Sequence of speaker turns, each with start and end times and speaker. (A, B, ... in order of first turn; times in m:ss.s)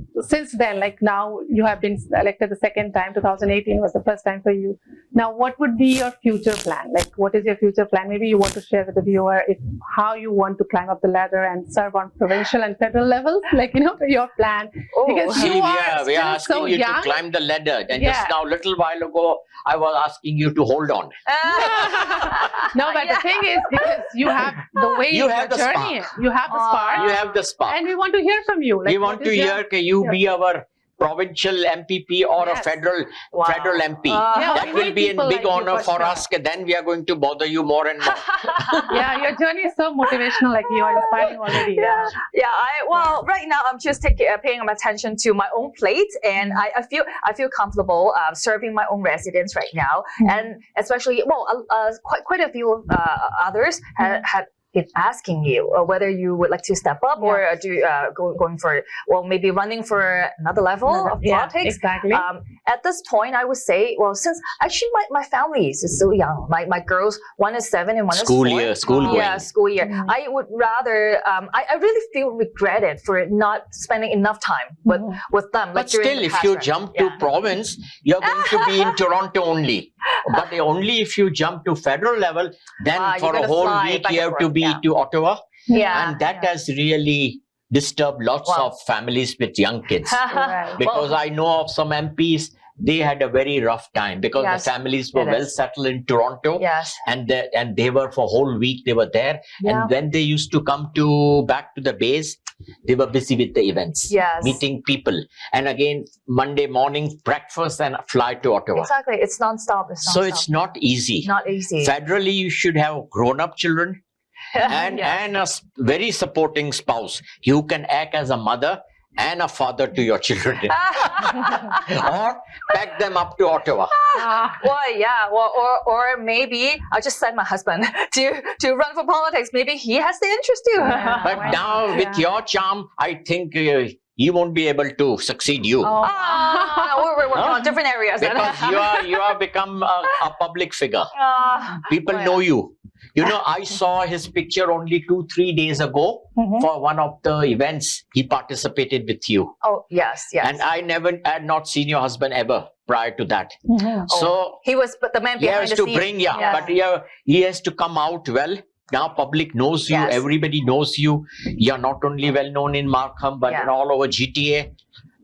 0:00.2-0:17.2 A
0:14.9-0:15.6 B
0:15.3-0:21.1 C
0:17.9-0:18.3 A
0:21.3-0:24.9 B
0:21.4-0:30.2 A
0:25.1-0:26.1 C
0:26.5-0:27.3 B
0:27.0-0:27.8 C
0:28.9-0:39.0 C
0:32.4-0:32.7 A
0:33.3-0:34.7 B
0:34.3-0:36.3 A
0:38.2-0:39.0 B
0:38.9-0:42.1 A
0:40.8-1:17.3 B
1:00.9-1:02.3 A
1:08.1-1:09.5 C
1:08.9-1:09.2 A
1:09.8-1:10.1 A
1:14.9-1:15.2 A
1:15.8-1:30.2 C
1:18.2-1:19.0 B
1:20.2-1:20.5 B
1:22.9-1:24.8 B
1:25.7-1:26.2 A
1:25.7-1:26.5 B
1:30.0-1:31.2 B
1:30.3-1:30.8 A
1:30.8-1:48.9 C
1:34.4-1:35.5 B
1:36.6-1:37.0 B
1:39.6-1:39.9 B
1:44.1-1:44.6 B
1:48.8-1:50.5 B
1:50.0-1:54.0 C
1:51.2-1:51.9 B
1:54.5-1:55.2 B
1:54.6-2:03.9 C
2:00.7-2:02.0 B
2:03.9-2:11.6 B
2:04.2-2:04.6 A
2:10.8-2:12.3 A
2:11.2-2:16.0 C
2:15.8-2:19.4 B
2:16.0-2:17.1 A
2:17.3-2:21.1 C
2:21.2-2:22.4 B
2:21.9-2:29.5 C
2:26.4-2:26.7 A
2:29.6-2:30.6 B
2:30.4-2:34.6 C
2:33.7-2:34.1 A
2:34.1-2:36.7 B
2:35.4-2:44.7 C
2:36.4-2:36.6 A
2:39.9-2:40.3 B
2:43.4-2:43.7 B